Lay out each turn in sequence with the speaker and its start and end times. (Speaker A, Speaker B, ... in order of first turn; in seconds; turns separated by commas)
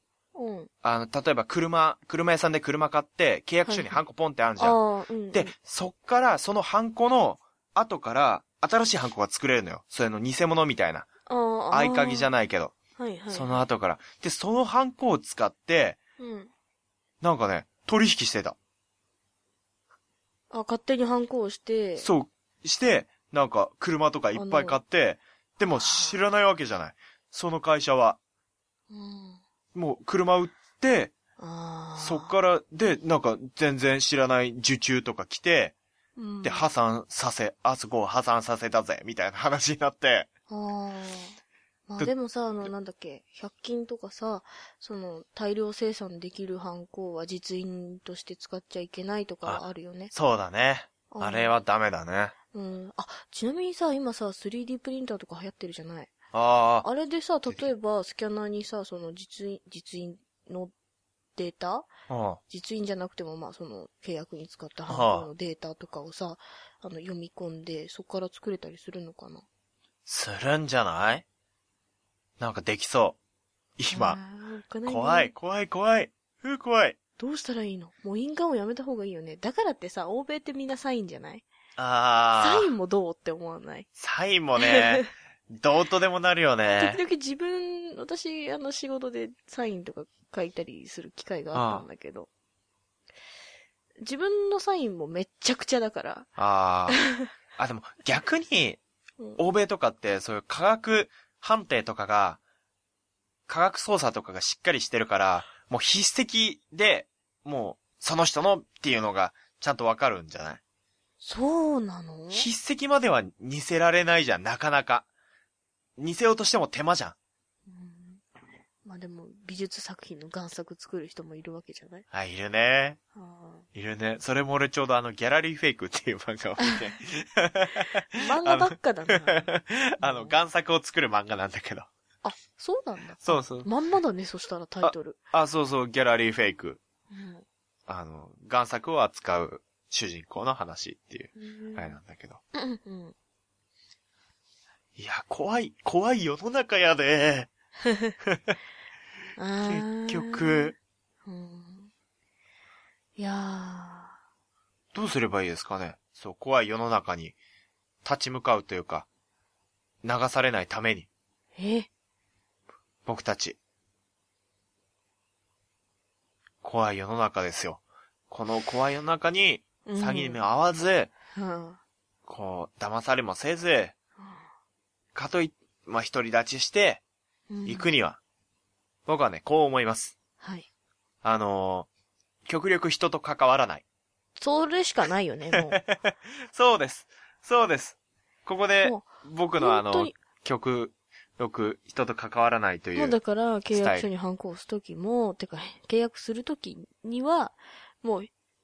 Speaker A: 0.3-0.7, Speaker B: 0.8-4.8, Speaker A: 3.6-4.0, Speaker A: 4.6-5.5, Speaker B: 5.3-11.1, Speaker A: 11.3-12.3, Speaker B: 11.7-12.7, Speaker A: 13.0-13.6, Speaker B: 13.3-16.0, Speaker A: 16.2-16.5, Speaker B: 17.2-18.6, Speaker A: 20.5-22.1, Speaker B: 22.0-28.2, Speaker A: 24.4-24.8, Speaker A: 25.8-26.2, Speaker A: 28.9-29.4, Speaker B: 29.8-31.1, Speaker A: 31.4-32.3, Speaker B: 32.0-35.8, Speaker A: 36.2-36.7, Speaker B: 36.4-40.3, Speaker A: 40.5-41.4, Speaker A: 41.9-50.1, Speaker B: 50.1-52.4, Speaker A: 51.1-51.5, Speaker A: 52.5-56.1, Speaker B: 56.3-56.9, Speaker A: 56.8-60.7, Speaker A: 61.4-61.9, Speaker B: 62.1-62.4, Speaker A: 62.5-69.5, Speaker B: 64.9-65.3, Speaker B: 70.1-71.2, Speaker B: 72.4-73.2, Speaker B: 73.8-74.2, Speaker A: 73.9-75.3, Speaker B: 74.9-77.0, Speaker A: 77.2-81.4, Speaker B: 81.8-82.7, Speaker A: 82.3-83.9, Speaker B: 84.0-87.0, Speaker A: 84.6-85.1, Speaker A: 86.8-92.3, Speaker B: 91.5-91.9, Speaker A: 94.0-96.3, Speaker B: 96.4-97.0, Speaker A: 96.9-97.3, Speaker B: 97.6-98.8, Speaker B: 99.4-102.4, Speaker B: 103.5-110.6, Speaker A: 111.2-112.5, Speaker B: 112.3-115.1, Speaker B: 116.0-117.2, Speaker A: 117.7-118.2, Speaker A: 118.8-122.1, Speaker B: 122.1-123.0, Speaker A: 123.1-123.7, Speaker B: 123.7-131.9, Speaker A: 128.1-130.4, Speaker A: 132.2-135.2, Speaker B: 133.2-133.7, Speaker B: 134.8-136.8, Speaker A: 137.1-137.4, Speaker B: 137.9-142.4, Speaker A: 141.4-142.0, Speaker A: 142.5-143.1, Speaker B: 145.0-147.5, Speaker A: 147.9-148.1, Speaker B: 148.2-148.6, Speaker A: 149.4-150.7, Speaker B: 149.7-150.7, Speaker A: 151.2-151.9, Speaker A: 153.2-154.2, Speaker B: 154.9-157.4, Speaker B: 158.0-159.1, Speaker B: 160.0-161.1, Speaker A: 161.6-161.9, Speaker B: 163.1-163.6, Speaker B: 166.6-171.1, Speaker A: 169.8-170.4, Speaker A: 171.3-171.8, Speaker B: 172.2-173.9, Speaker B: 175.1-177.0, Speaker A: 177.5-177.9, Speaker B: 177.7-178.2, Speaker B: 179.1-180.2, Speaker A: 180.4-180.7, Speaker B: 181.2-181.9, Speaker B: 182.4-183.8, Speaker A: 184.4-185.8, Speaker B: 185.5-193.2, Speaker A: 188.8-190.2, Speaker A: 192.9-198.3, Speaker B: 193.7-194.1